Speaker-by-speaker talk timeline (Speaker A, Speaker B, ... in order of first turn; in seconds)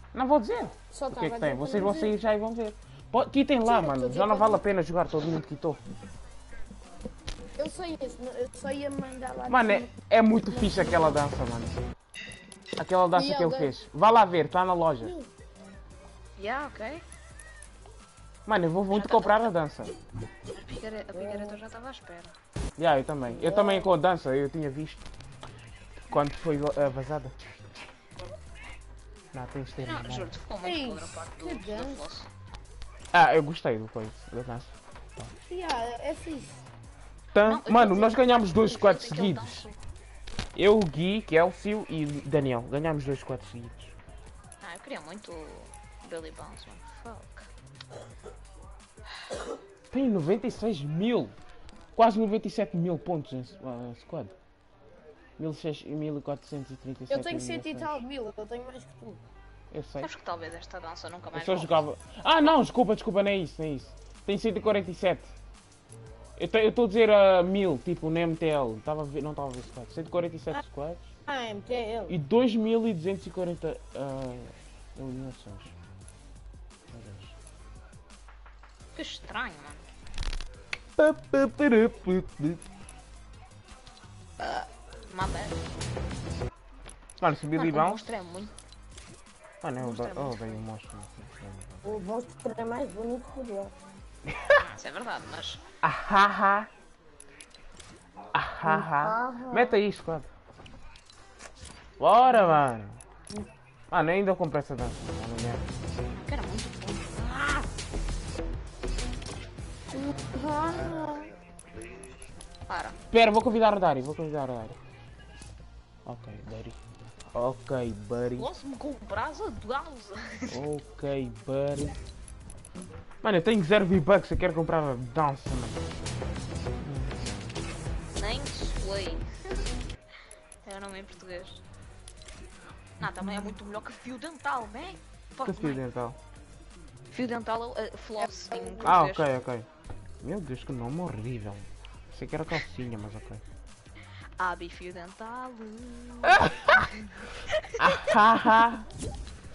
Speaker A: 0.1-5.8, 9.5-11.8, 12.8-15.1, 18.5-19.9, 22.8-25.0, 26.1-27.4, 29.3-30.4, 33.1-35.3, 37.3-39.7, 40.5-43.9, 49.9-51.3, 52.0-54.3, 55.4-58.0, 59.7-60.1, 61.3-65.3, 66.4-71.1, 72.1-75.7, 76.9-77.3, 81.0-82.6, 87.2-88.0, 89.6-91.8, 94.3-94.6, 95.8-96.7, 98.3-100.3, 102.0-103.0, 103.9-105.7, 110.1-111.0, 113.1-114.8, 116.1-116.8, 117.3-118.5, 120.5-122.0, 123.2-125.8, 126.8-127.6, 135.4-136.2, 138.8-139.7, 140.2-143.4, 146.2-146.9, 147.8-148.8
Speaker B: 0.9-2.2, 3.6-4.6, 7.6-9.9, 10.5-11.2, 13.1-13.7, 15.0-15.3, 21.1-21.6, 23.2-23.9, 30.6-32.1, 35.5-36.6, 57.1-59.2, 71.3-72.2, 91.8-93.8, 98.7-99.8, 109.9-111.2, 138.2-139.0
Speaker C: 16.4-17.0, 18.9-19.5, 20.5-22.3, 29.8-32.3, 37.5-39.8, 44.6-47.5, 60.0-61.8, 79.0-79.8, 84.4-85.6, 87.6-88.5, 89.8-90.6, 94.6-95.6, 106.2-107.7, 112.7-113.0, 118.4-120.5, 128.2-129.3, 130.6-131.6, 133.0-135.8, 137.1-139.3, 144.4-146.9, 147.8-148.2